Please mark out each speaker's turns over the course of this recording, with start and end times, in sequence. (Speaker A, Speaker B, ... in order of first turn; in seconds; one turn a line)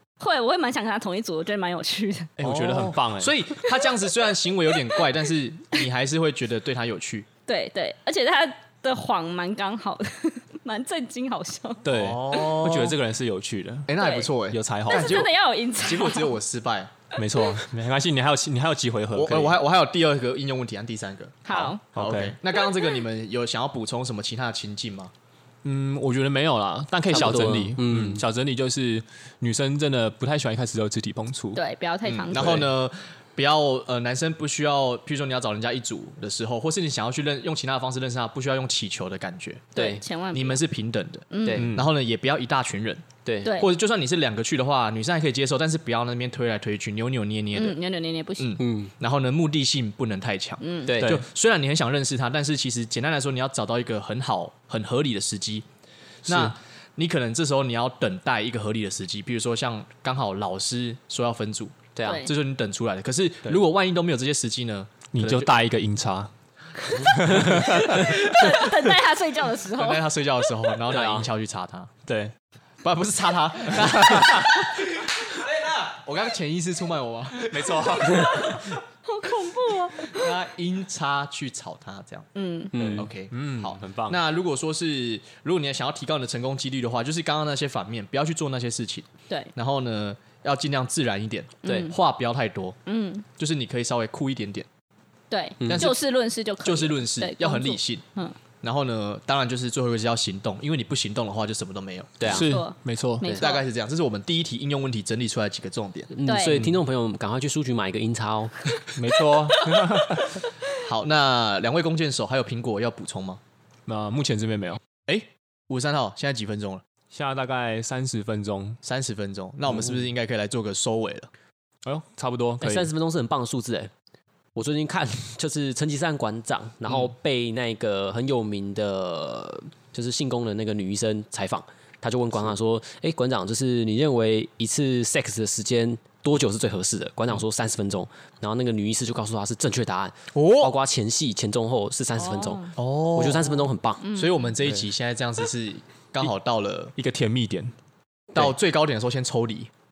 Speaker A: 0.2-2.3
Speaker B: 2.4-3.3
Speaker C: 2.4-7.3
Speaker A: 7.5-12.4
Speaker B: 11.8-13.9
Speaker C: 11.9-12.9
Speaker C: 13.9-16.9
Speaker A: 14.0-14.3
Speaker B: 14.5-15.2
Speaker A: 14.9-16.3
Speaker B: 17.1-19.6
Speaker C: 19.1-25.1
Speaker A: 21.4-21.8
Speaker B: 21.9-22.4
Speaker A: 22.7-23.0
Speaker B: 25.6-31.6
Speaker D: 27.1-28.2
Speaker A: 31.5-32.7
Speaker B: 32.1-32.6
Speaker C: 32.2-39.7
Speaker D: 39.7-40.0
Speaker A: 39.7-40.6
Speaker C: 40.3-47.8
Speaker A: 41.3-41.7
Speaker D: 41.4-41.7
Speaker B: 41.6-41.9
Speaker D: 43.2-43.6
Speaker A: 43.4-43.7
Speaker A: 47.5-48.5
Speaker C: 48.4-55.6
Speaker D: 48.6-48.9
Speaker A: 50.6-51.0
Speaker D: 50.9-51.2
Speaker B: 51.0-51.2
Speaker C: 56.2-65.5
Speaker B: 56.3-56.5
Speaker D: 62.0-62.3
Speaker A: 62.0-62.3
Speaker B: 65.1-68.7
Speaker D: 67.1-67.7
Speaker A: 67.8-70.1
Speaker C: 69.7-71.9
Speaker D: 70.9-71.3
Speaker B: 72.0-72.3
Speaker C: 72.8-78.7
Speaker B: 74.0-74.5
Speaker B: 77.4-78.5
Speaker A: 78.2-80.3
Speaker C: 80.0-92.8
Speaker A: 82.3-82.7
Speaker D: 82.7-83.1
Speaker B: 82.7-84.2
Speaker D: 91.6-91.9
Speaker A: 91.6-92.0
Speaker A: 92.8-93.2
Speaker C: 93.4-94.7
Speaker A: 95.3-98.3
Speaker D: 95.6-95.9
Speaker C: 95.7-96.0
Speaker C: 96.6-98.0
Speaker C: 98.6-102.4
Speaker D: 102.2-102.5
Speaker B: 102.2-103.3
Speaker A: 102.3-103.6
Speaker C: 103.3-106.1
Speaker D: 106.1-108.6
Speaker A: 106.2-106.7
Speaker B: 108.9-110.4
Speaker C: 110.8-113.4
Speaker B: 113.9-114.8
Speaker C: 115.0-116.8
Speaker B: 117.1-118.8
Speaker C: 118.8-121.3
Speaker B: 121.8-122.9
Speaker D: 122.6-123.9
Speaker D: 124.5-144.0
Speaker C: 140.3-140.7
Speaker A: 142.2-142.7
Speaker C: 142.8-146.9
Speaker A: 144.0-144.5
Speaker B: 146.9-147.7
Speaker C: 148.3-149.7